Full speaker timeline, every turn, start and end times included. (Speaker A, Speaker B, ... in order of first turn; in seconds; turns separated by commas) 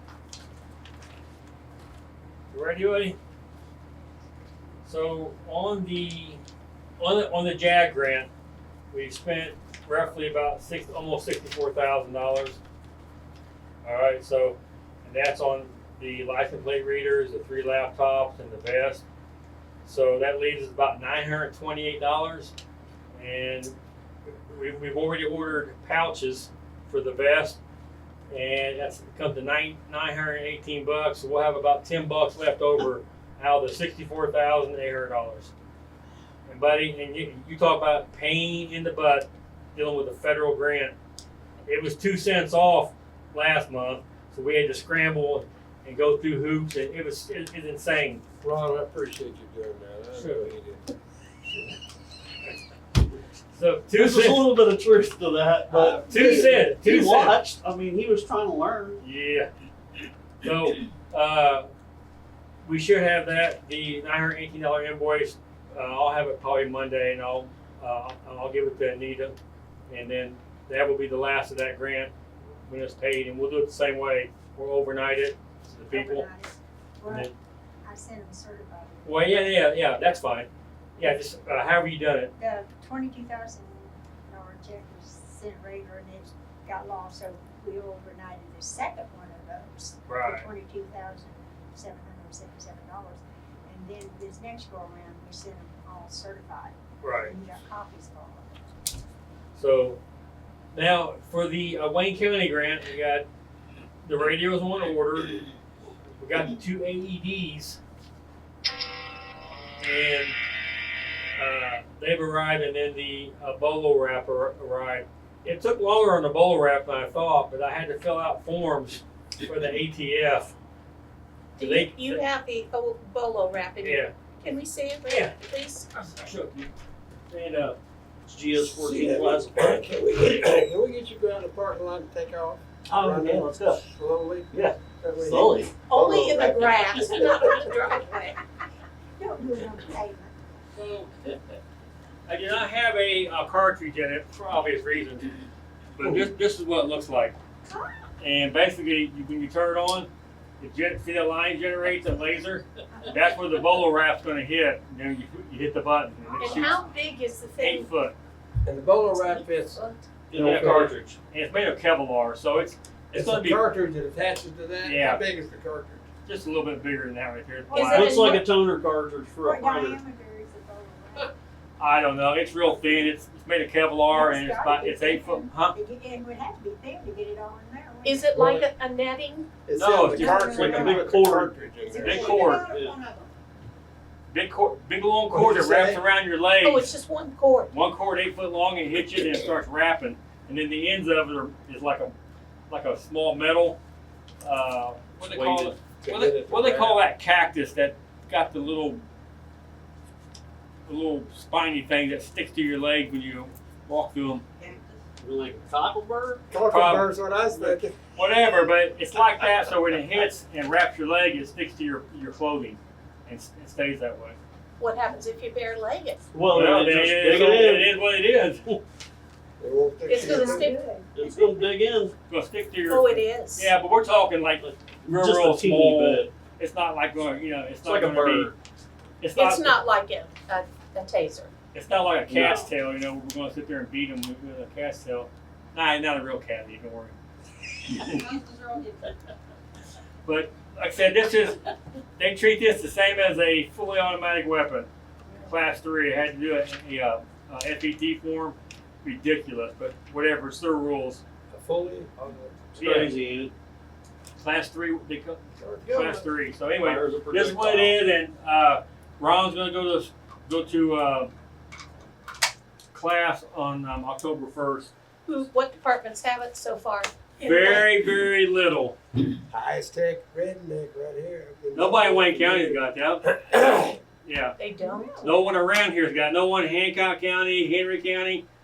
Speaker A: 2.5-3.1, Speaker A: 4.8-6.4, Speaker A: 7.0-8.3, Speaker A: 8.9-12.6, Speaker A: 13.8-19.0, Speaker A: 19.8-22.5, Speaker A: 23.1-23.7, Speaker A: 24.2-27.6, Speaker A: 28.3-35.5, Speaker A: 36.5-40.9, Speaker A: 41.6-48.2, Speaker B: 48.4-50.8, Speaker A: 50.1-50.5, Speaker A: 53.5-54.5, Speaker C: 53.9-59.0, Speaker B: 55.7-56.7, Speaker A: 56.1-57.4, Speaker A: 59.0-59.5, Speaker A: 60.4-61.7, Speaker A: 62.6-69.3, Speaker A: 69.9-72.1, Speaker A: 72.7-76.3, Speaker D: 75.9-77.3, Speaker A: 77.0-77.3, Speaker D: 77.8-79.3, Speaker A: 79.0-82.3, Speaker D: 82.4-98.5, Speaker A: 90.1-90.5, Speaker A: 97.0-97.3, Speaker A: 99.5-100.0, Speaker A: 100.7-103.2, Speaker A: 104.0-105.4, Speaker A: 106.2-107.8, Speaker A: 109.8-110.4, Speaker A: 111.3-120.5, Speaker A: 121.6-122.2, Speaker E: 121.6-126.0, Speaker A: 123.8-124.1, Speaker A: 125.1-125.3, Speaker A: 126.0-126.7, Speaker A: 127.3-127.8, Speaker C: 128.2-129.8, Speaker B: 128.5-137.5, Speaker C: 132.9-133.8, Speaker C: 134.5-135.8, Speaker E: 135.9-138.4, Speaker D: 139.2-140.3, Speaker A: 140.7-141.1, Speaker A: 142.3-145.3, Speaker A: 146.0-147.3, Speaker A: 148.2-150.1, Speaker A: 150.6-156.8, Speaker E: 156.3-157.9, Speaker D: 156.4-156.8, Speaker A: 157.6-158.1, Speaker B: 158.7-159.8, Speaker E: 159.1-160.0, Speaker C: 160.3-161.1, Speaker B: 160.3-161.0, Speaker A: 160.4-163.6, Speaker B: 163.1-166.0, Speaker A: 164.8-165.2, Speaker A: 166.2-168.2, Speaker D: 167.7-168.4, Speaker E: 167.7-168.4, Speaker C: 167.9-170.0, Speaker D: 169.4-171.3, Speaker A: 171.8-175.8, Speaker D: 174.1-178.3, Speaker E: 178.0-179.5, Speaker B: 178.3-178.7, Speaker B: 179.7-182.6, Speaker A: 179.7-180.7, Speaker D: 180.1-181.1, Speaker E: 180.3-180.9, Speaker C: 180.5-181.5, Speaker D: 181.9-183.3, Speaker A: 182.0-182.7, Speaker C: 182.6-182.9, Speaker A: 184.3-186.9, Speaker B: 185.3-186.0, Speaker E: 186.6-187.7, Speaker A: 187.7-192.1, Speaker A: 192.7-193.8, Speaker A: 194.4-199.0, Speaker C: 195.3-195.8, Speaker B: 196.0-197.0, Speaker A: 200.8-204.4, Speaker C: 205.2-206.4, Speaker B: 206.5-207.9, Speaker A: 206.6-214.4, Speaker E: 214.8-216.3, Speaker C: 216.3-218.0, Speaker A: 216.5-218.7, Speaker B: 219.6-220.7, Speaker E: 220.1-221.7, Speaker D: 220.1-221.2, Speaker C: 221.1-222.1, Speaker A: 222.3-228.5, Speaker E: 222.8-223.7, Speaker C: 224.6-226.3, Speaker C: 227.8-228.5, Speaker A: 229.2-229.8, Speaker E: 229.3-231.5, Speaker A: 231.7-237.1, Speaker C: 232.3-232.7, Speaker D: 238.3-238.8, Speaker A: 240.2-241.6, Speaker A: 242.2-244.9, Speaker A: 245.4-251.2, Speaker B: 251.5-253.1, Speaker C: 252.7-253.5, Speaker A: 252.8-253.1, Speaker A: 254.4-261.3, Speaker B: 255.6-256.2, Speaker C: 256.8-258.0, Speaker A: 262.9-264.9, Speaker E: 265.3-267.8, Speaker D: 267.4-267.9, Speaker A: 267.4-268.9, Speaker B: 269.5-272.8, Speaker A: 271.7-273.4, Speaker B: 273.3-274.0, Speaker A: 274.2-274.6, Speaker E: 274.6-275.3, Speaker D: 274.8-275.3, Speaker A: 275.2-278.4